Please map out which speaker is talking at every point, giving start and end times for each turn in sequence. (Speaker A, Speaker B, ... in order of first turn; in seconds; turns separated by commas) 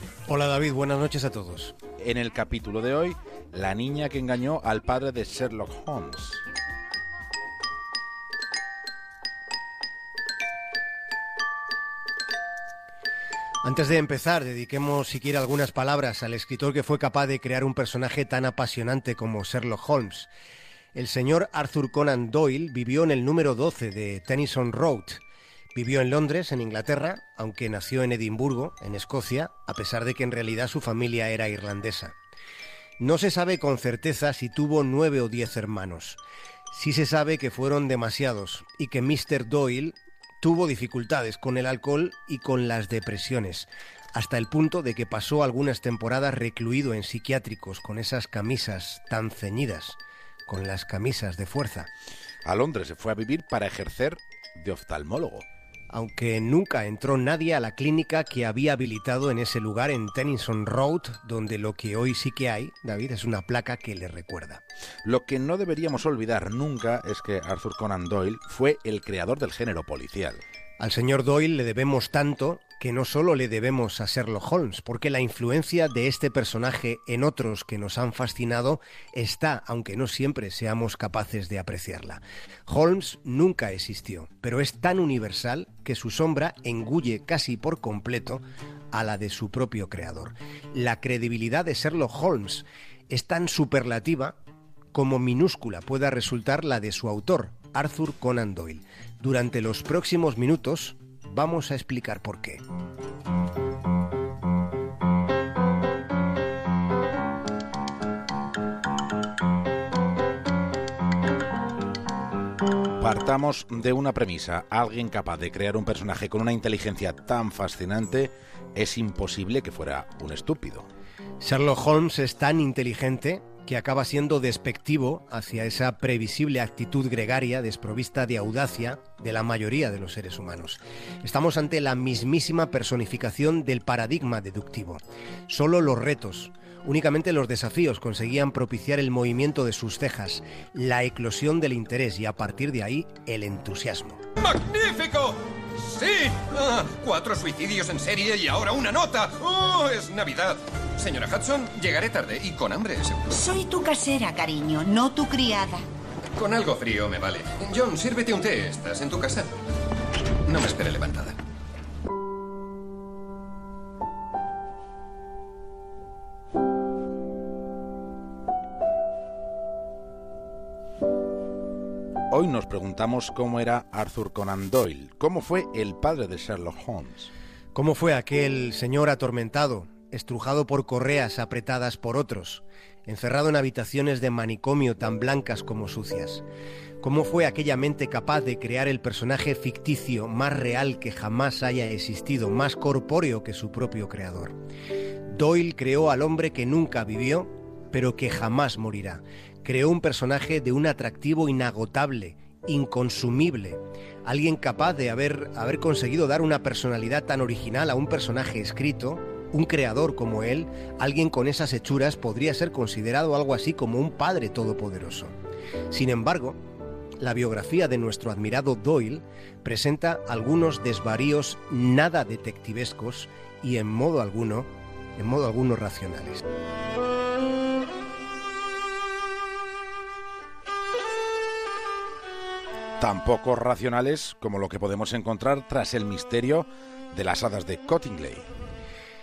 Speaker A: 0.3-1.7, Speaker B: 2.0-6.4, Speaker A: 13.6-20.3, Speaker A: 20.9-25.2, Speaker A: 25.7-32.1, Speaker A: 33.0-51.9, Speaker B: 52.4-55.4, Speaker A: 55.9-64.6, Speaker B: 65.0-70.4, Speaker A: 70.8-94.3, Speaker A: 94.9-102.6, Speaker B: 113.0-120.9, Speaker A: 121.4-144.2, Speaker C: 144.4-153.4, Speaker D: 153.3-155.8, Speaker C: 156.3-159.5, Speaker C: 160.4-161.3, Speaker B: 172.3-177.3, Speaker A: 177.7-186.4, Speaker A: 187.0-194.5, Speaker A: 195.3-215.3, Speaker A: 215.9-216.6, Speaker A: 217.2-226.4, Speaker B: 233.0-238.4